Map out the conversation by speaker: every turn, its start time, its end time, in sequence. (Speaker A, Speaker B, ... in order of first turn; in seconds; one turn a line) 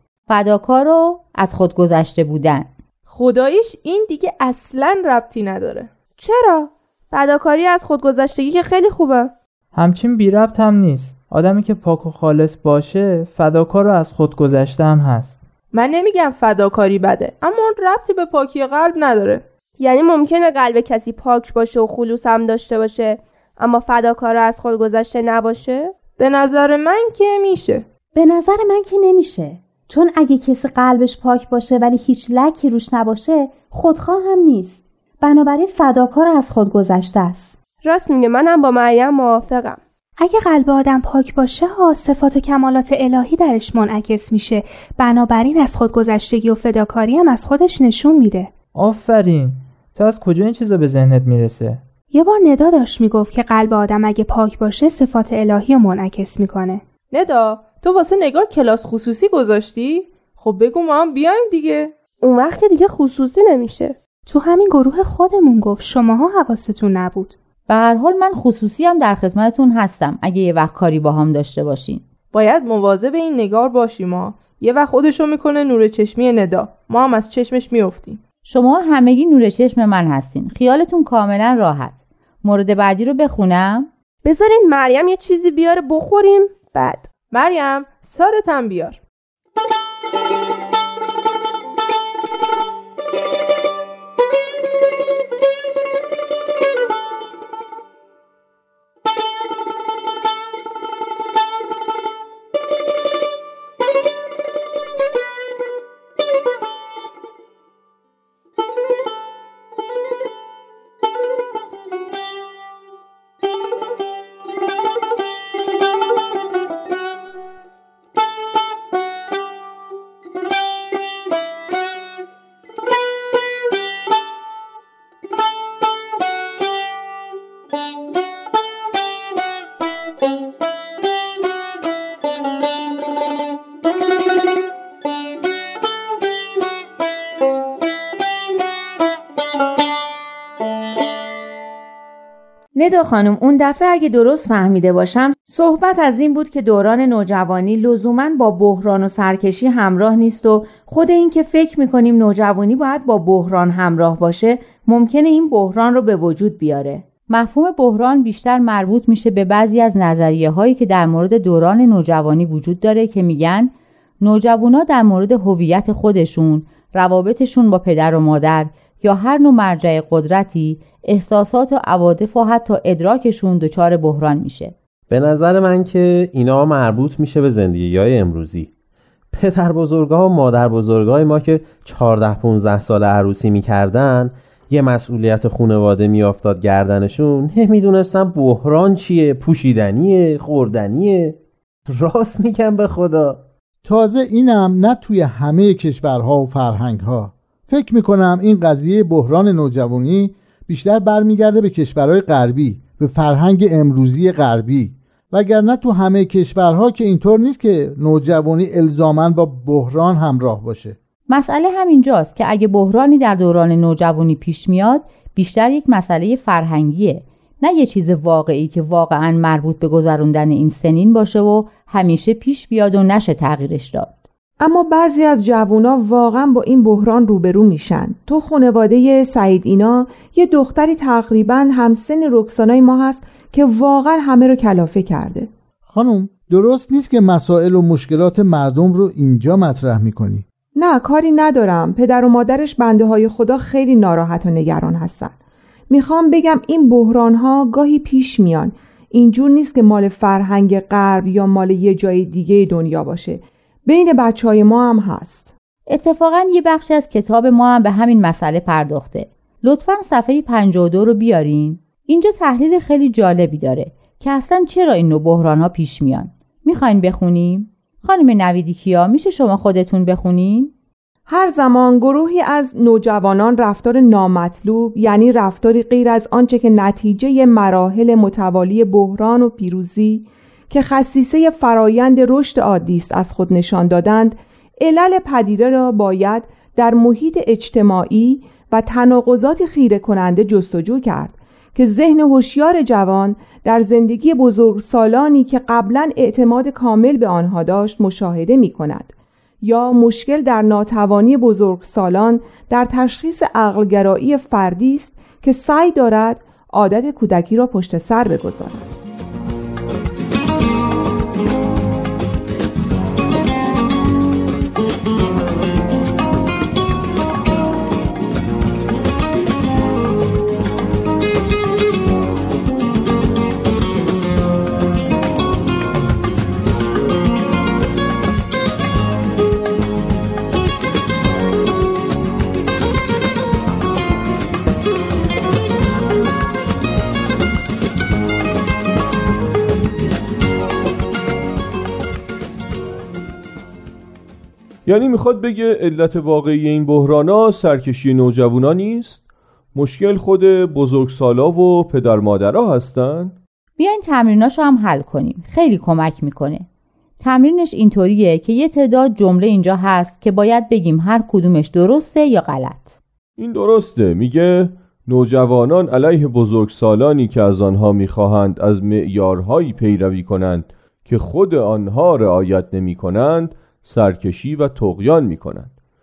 Speaker A: 0.3-2.7
Speaker B: 3.1-5.9
Speaker C: 6.2-9.3
Speaker D: 9.7-15.4
Speaker B: 15.7-19.4
Speaker C: 19.8-26.0
Speaker B: 26.2-27.8
Speaker E: 28.1-37.5
Speaker C: 37.8-39.8
Speaker F: 40.2-48.5
Speaker D: 48.7-51.8
Speaker F: 52.1-56.8
Speaker B: 57.1-61.9
Speaker C: 62.2-64.0
Speaker F: 64.3-67.3
Speaker A: 67.7-72.0
Speaker B: 72.3-78.2
Speaker A: 78.5-83.9
Speaker C: 84.2-87.1
Speaker B: 87.3-89.0
Speaker G: 142.8-157.1
Speaker A: 157.3-174.8
Speaker H: 175.1-178.7
Speaker H: 179.3-191.4
Speaker H: 191.9-193.4
Speaker I: 193.8-211.0
Speaker A: 211.3-224.2
Speaker J: 224.6-235.5
Speaker I: 235.9-240.4
Speaker J: 240.8-245.3
Speaker J: 245.9-255.5
Speaker A: 255.9-270.7
Speaker J: 271.3-308.9
Speaker K: 344.9-349.2
Speaker K: 349.8-353.4
Speaker A: 353.8-356.7
Speaker A: 357.2-362.9
Speaker K: 363.4-375.7